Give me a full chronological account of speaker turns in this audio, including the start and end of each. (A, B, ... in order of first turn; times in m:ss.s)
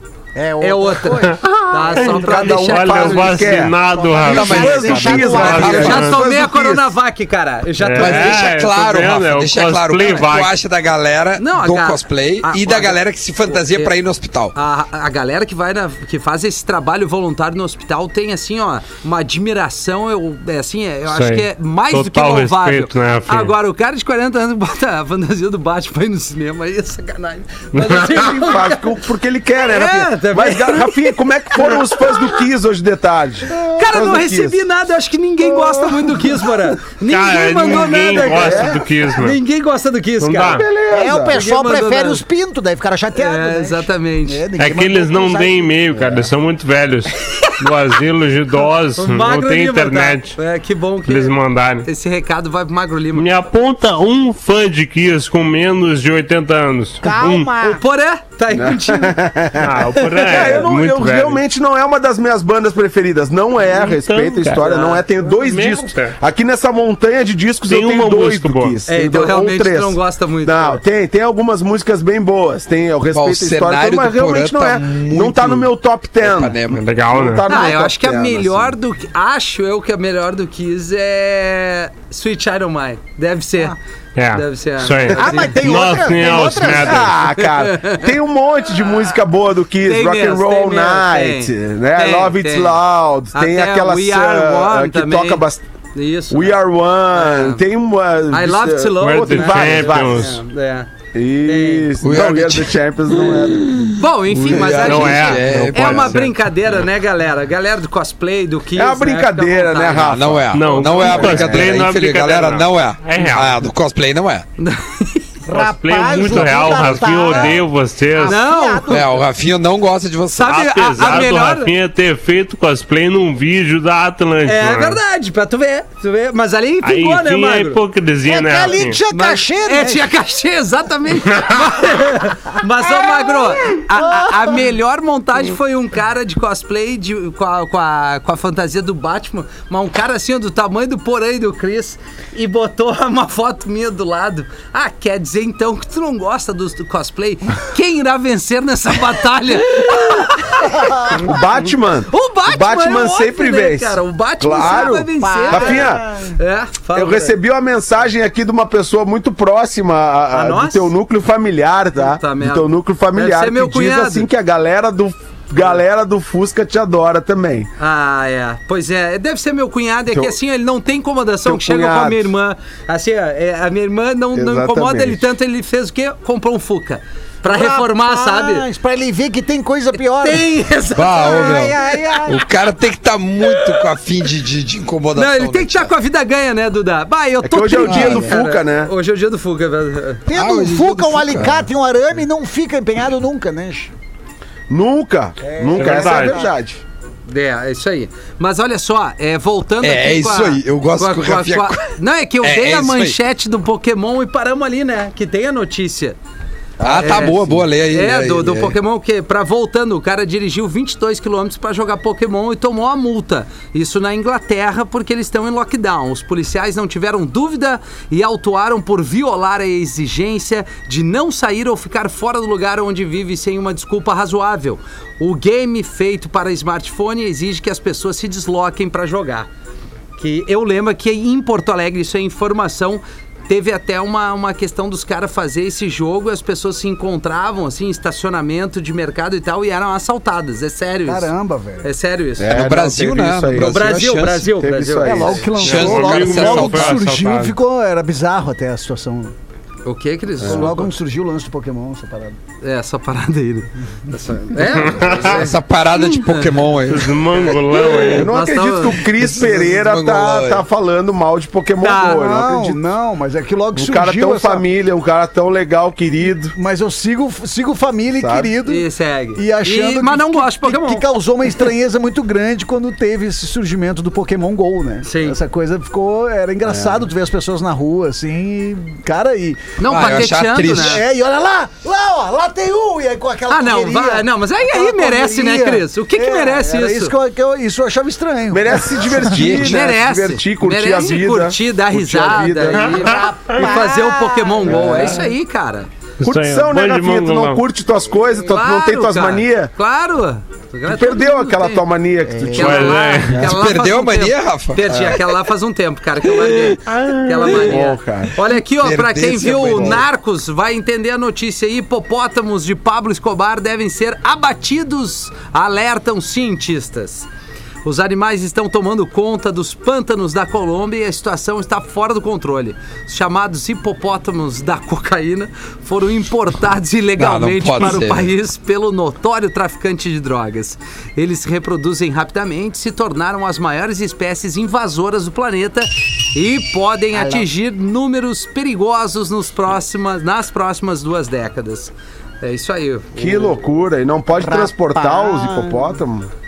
0:00.3-0:02.6 A
0:00.6-0:03.7 B
0:01.3-0:06.2 C
0:01.9-0:06.9 D
0:03.8-0:06.0 A
0:04.2-0:06.1 E
0:05.6-0:08.5 B
0:07.8-0:10.5 C
0:08.0-0:14.5 E
0:11.4-0:13.9 B
0:14.5-0:28.8 B
0:21.1-0:23.5 C
0:27.7-0:28.2 C
0:28.0-0:34.6 D
0:29.7-0:32.4 B
0:33.6-0:40.6 B
0:35.4-0:36.4 D
0:37.1-0:39.4 C
0:38.1-0:38.8 D
0:40.2-0:40.7 C
0:40.5-0:41.4 D
0:40.9-0:45.8 A
0:41.3-0:42.2 B
0:43.1-0:44.4 B
0:44.6-0:50.4 C
0:45.9-0:46.3 D
0:48.9-0:53.3 B
0:51.0-0:51.9 C
0:53.1-0:57.5 C
0:57.0-0:57.8 A
0:57.6-0:59.2 B
0:58.5-1:18.7 D
0:59.6-1:01.4 C
0:59.9-1:00.7 B
1:03.6-1:06.2 C
1:04.6-1:05.0 B
1:07.6-1:08.8 C
1:08.9-1:10.8 B
1:13.1-1:16.8 E
1:16.7-1:17.5 C
1:17.5-1:23.8 B
1:24.2-1:27.1 C
1:24.3-1:25.9 B
1:25.2-1:27.1 A
1:26.6-1:35.6 D
1:27.3-1:28.1 B
1:29.8-1:32.8 B
1:33.3-1:37.6 B
1:36.3-1:40.4 D
1:38.3-1:40.9 B
1:39.0-1:40.4 C
1:41.1-1:43.9 D
1:41.4-1:41.9 B
1:42.0-1:46.2 E
1:44.0-1:51.4 B
1:44.5-1:46.4 C
1:48.7-1:51.7 D
1:49.9-1:54.4 E
1:50.5-1:53.6 C
1:54.6-1:55.3 B
1:55.5-1:59.2 A
1:55.5-1:58.4 C
1:57.2-1:57.5 B
1:58.2-1:58.9 B
1:58.9-2:00.7 E
2:00.3-2:01.7 B
2:00.5-2:05.0 C
2:04.4-2:07.8 B
2:06.8-2:09.0 C
2:08.2-2:10.1 A
2:09.1-2:31.4 B
2:13.1-2:14.6 A
2:30.8-2:31.2 A
2:31.1-2:36.0 D
2:32.1-2:37.4 B
2:34.5-2:36.4 A
2:36.9-2:47.7 D
2:40.3-2:40.9 B
2:42.0-2:44.3 B
2:47.8-2:58.6 B
2:51.4-2:52.3 D
2:54.3-2:55.2 D
2:57.4-3:00.4 A
3:00.2-3:02.0 B
3:00.9-3:05.9 E
3:01.1-3:02.4 A
3:03.5-3:03.8 B
3:05.2-3:10.2 B
3:07.4-3:08.9 D
3:07.9-3:08.2 A
3:10.3-3:13.9 A
3:10.3-3:11.6 E
3:14.7-3:16.8 D
3:15.4-3:16.5 A
3:15.7-3:16.4 C
3:17.2-3:26.2 B
3:19.8-3:21.9 E
3:22.4-3:23.2 E
3:26.8-3:27.3 D
3:26.8-3:28.8 E
3:26.9-3:49.5 B
3:50.2-4:02.7 B
4:01.0-4:01.9 A
4:02.4-4:04.0 D
4:02.5-4:04.5 E
4:03.6-4:05.5 B
4:04.5-4:05.9 D
4:05.0-4:09.3 A
4:05.6-4:07.0 E
4:05.6-4:07.5 C
4:09.8-4:10.9 B
4:10.4-4:10.7 D
4:10.4-4:12.4 A
4:12.6-4:16.6 B
4:14.6-4:15.4 C
4:15.1-4:17.2 E
4:16.9-4:18.3 C
4:17.4-4:19.1 B
4:18.0-4:22.8 D
4:19.2-4:20.6 E
4:21.8-4:22.3 B
4:21.9-4:24.6 A
4:23.7-4:26.5 D
4:26.5-4:49.5 A
4:28.1-4:28.5 D
4:28.6-4:31.1 B
4:35.0-4:35.4 B
4:36.6-4:37.0 D
4:39.8-4:41.0 B
4:39.8-4:41.0 E
4:43.5-4:47.1 B
4:48.5-4:53.2 D
4:49.2-4:50.0 E
4:49.5-4:55.9 B
4:52.7-4:55.2 A
4:54.7-4:55.2 D
4:56.2-4:57.6 C
4:56.2-4:59.7 D
4:58.3-5:01.9 B
5:00.9-5:03.5 D
5:02.2-5:02.9 A
5:02.5-5:17.3 B
5:02.5-5:03.5 C
5:03.4-5:05.2 E
5:04.8-5:05.2 D
5:06.9-5:07.6 C
5:07.5-5:08.3 D
5:08.8-5:10.0 E
5:09.7-5:10.0 D
5:17.8-5:43.6 B
5:27.2-5:28.3 E
5:37.1-5:37.5 A
5:43.2-5:46.3 D
5:44.4-5:46.0 A